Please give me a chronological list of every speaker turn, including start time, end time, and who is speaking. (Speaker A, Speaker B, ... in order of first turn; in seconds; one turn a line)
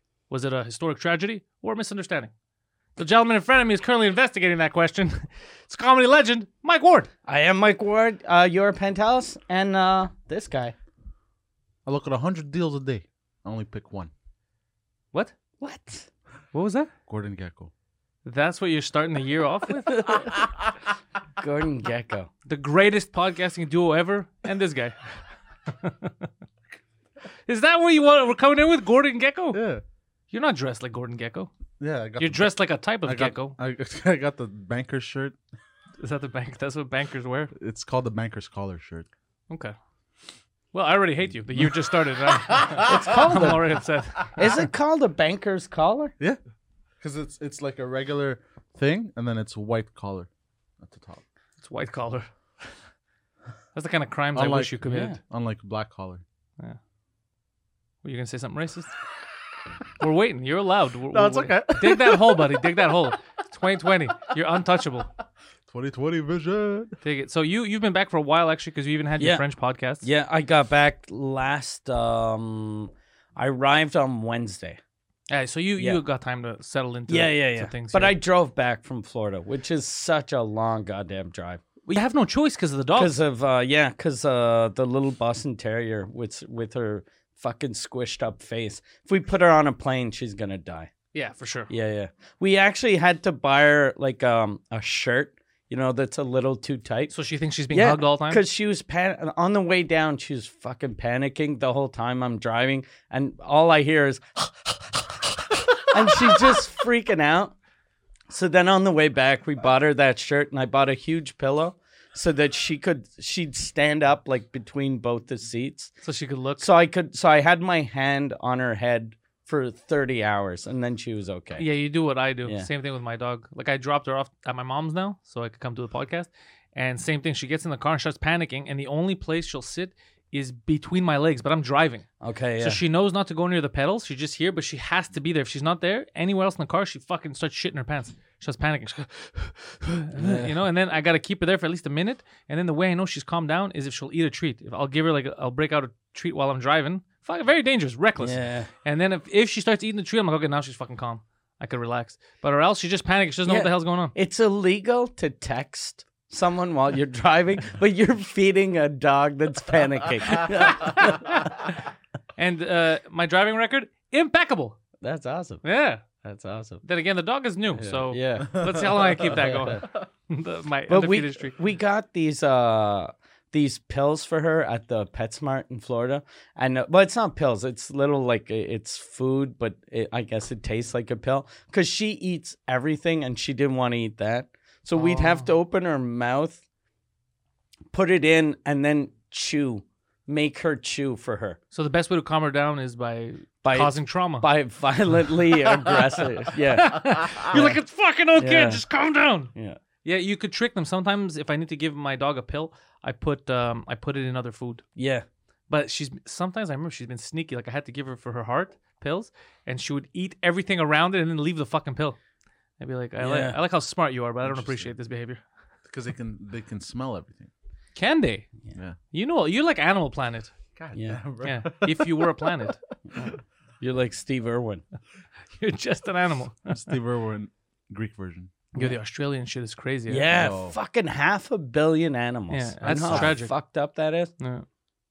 Speaker A: 0.3-2.3
Speaker A: 3.0-7.1
Speaker B: 7.3-10.7
Speaker C: 11.8-14.1
Speaker B: 15.6-16.1
Speaker A: 16.5-16.9
Speaker C: 17.1-17.7
Speaker A: 18.2-20.3
Speaker B: 19.9-20.2
Speaker B: 21.4-22.3
Speaker A: 22.5-25.2
Speaker A: 25.7-26.3
Speaker A: 27.5-29.6
Speaker C: 29.5-29.8
Speaker A: 30.3-31.5
Speaker C: 31.8-32.5
Speaker A: 32.2-33.6
Speaker C: 33.0-35.4
Speaker A: 36.0-37.5
Speaker C: 37.5-39.1
Speaker A: 39.5-39.8
Speaker A: 40.7-44.3
Speaker C: 42.5-43.5
Speaker B: 42.8-43.8
Speaker B: 44.4-46.1
Speaker C: 47.0-50.3
Speaker C: 50.8-51.2
Speaker A: 51.6-52.3
Speaker A: 53.8-55.2
Speaker C: 54.4-56.2
Speaker B: 54.9-55.2
Speaker A: 58.0-58.9
Speaker A: 60.0-65.1
Speaker C: 61.1-62.7
Speaker C: 65.7-67.0
Speaker A: 67.0-70.0
Speaker B: 70.0-74.8
Speaker A: 75.3-78.2
Speaker B: 77.1-81.6
Speaker A: 81.9-83.1
Speaker B: 83.0-90.9
Speaker A: 91.1-91.7
Speaker B: 91.7-97.1
Speaker A: 97.1-98.4
Speaker B: 97.7-107.5
Speaker B: 108.3-115.9
Speaker A: 116.0-116.7
Speaker B: 116.6-121.7
Speaker A: 121.6-132.1
Speaker B: 132.2-132.8
Speaker A: 132.6-154.1
Speaker B: 140.2-140.5
Speaker B: 148.2-148.7
Speaker B: 153.5-161.4
Speaker A: 160.3-161.8
Speaker A: 162.4-164.8
Speaker B: 165.0-165.6
Speaker A: 165.6-166.0
Speaker B: 166.2-166.8
Speaker A: 166.8-171.6
Speaker B: 167.8-168.9
Speaker C: 168.4-169.4
Speaker B: 170.9-186.6
Speaker A: 184.9-185.5
Speaker B: 187.9-191.6
Speaker A: 191.7-194.5
Speaker B: 193.6-197.8
Speaker A: 196.7-199.5
Speaker B: 198.4-198.8
Speaker A: 200.0-204.8
Speaker B: 205.0-205.2
Speaker A: 205.7-212.2
Speaker A: 212.8-215.4
Speaker B: 213.2-213.6
Speaker C: 214.4-214.9
Speaker C: 215.8-217.5
Speaker A: 218.0-218.5
Speaker A: 219.1-220.5
Speaker C: 220.8-222.5
Speaker B: 220.9-221.2
Speaker A: 221.4-223.3
Speaker B: 223.8-224.8
Speaker A: 225.6-226.8
Speaker C: 226.7-228.5
Speaker A: 228.8-230.3
Speaker B: 230.1-234.3
Speaker C: 230.3-230.8
Speaker A: 232.5-233.5
Speaker A: 234.4-234.7